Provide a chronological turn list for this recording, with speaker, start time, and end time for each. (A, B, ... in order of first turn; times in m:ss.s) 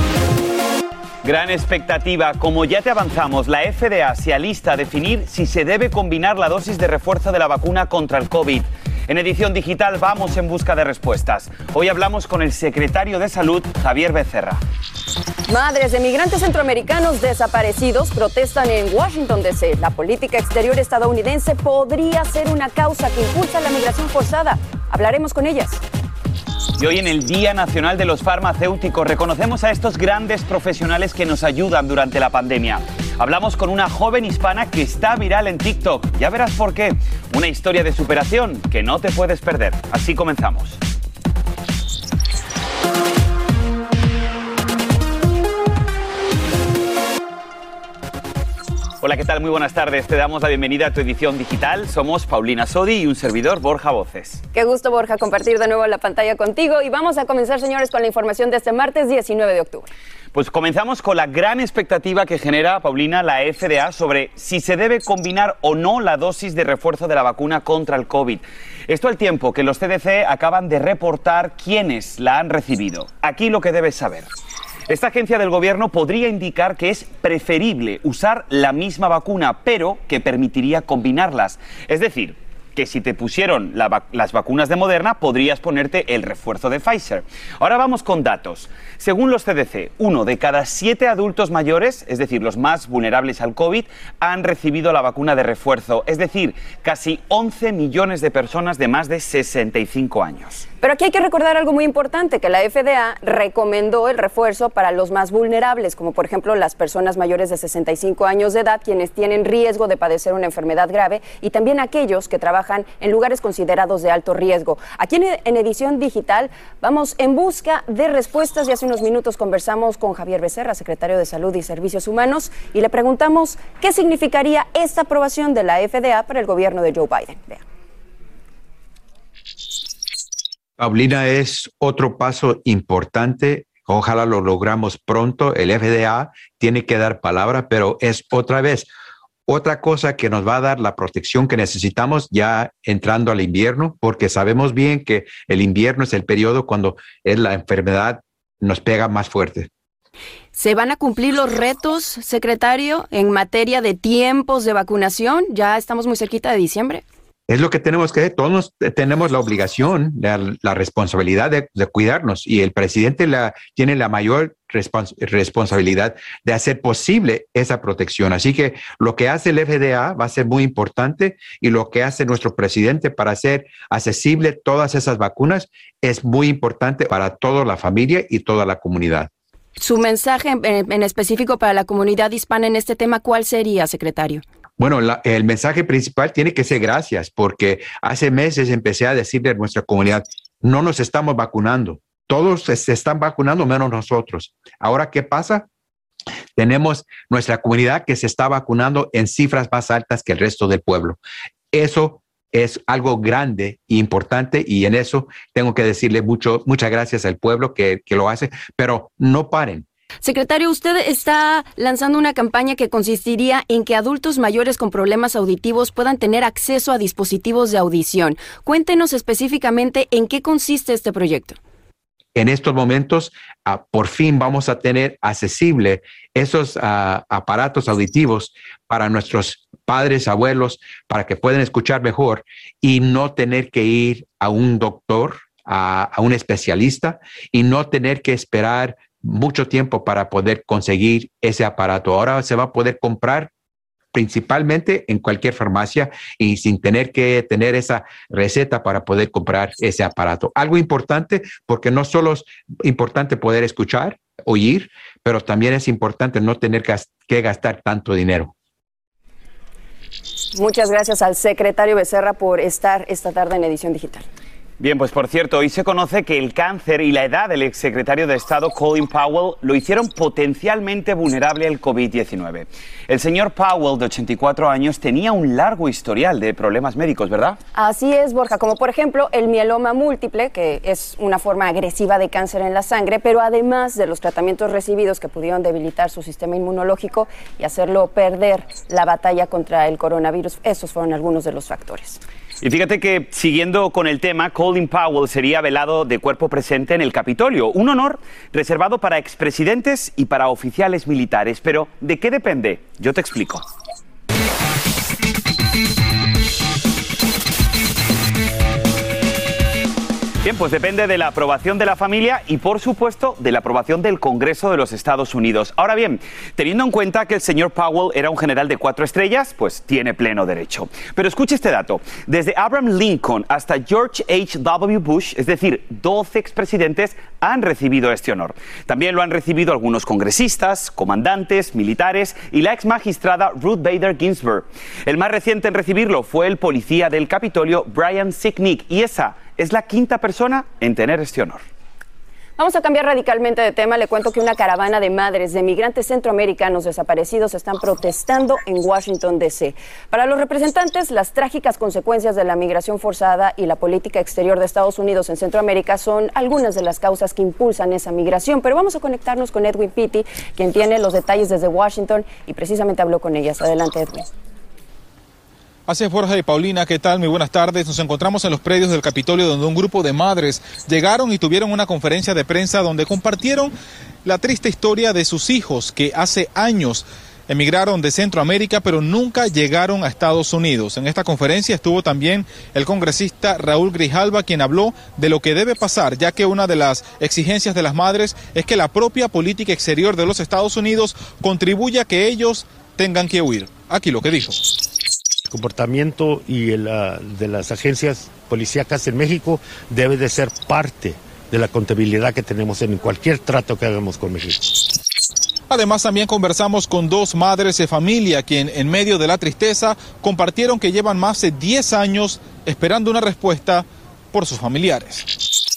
0:01.2-0:14.6 A
0:15.5-0:25.8 B
0:26.8-0:40.8 A
0:49.0-0:54.4 A
0:54.5-0:59.9 B
1:00.3-1:14.3 A
1:14.9-1:40.6 A
1:40.8-2:07.6 B
2:10.8-2:18.9 C
2:19.5-2:29.7 C
2:30.6-2:37.0 B
2:37.5-2:59.3 C
2:59.8-3:04.4 B
3:04.8-3:15.7 C
3:16.6-3:21.2 C
3:21.7-3:29.9 C
3:30.2-3:41.6 B
3:42.3-4:03.5 C
4:04.1-4:18.5 C
4:20.5-4:24.2 B
4:24.8-4:37.6 A
4:37.8-4:52.2 B
4:52.6-5:03.6 A
5:10.4-5:41.6 A
5:42.6-6:04.3 B
6:05.9-6:34.8 D
6:35.5-6:44.9 E
6:45.7-6:55.2 D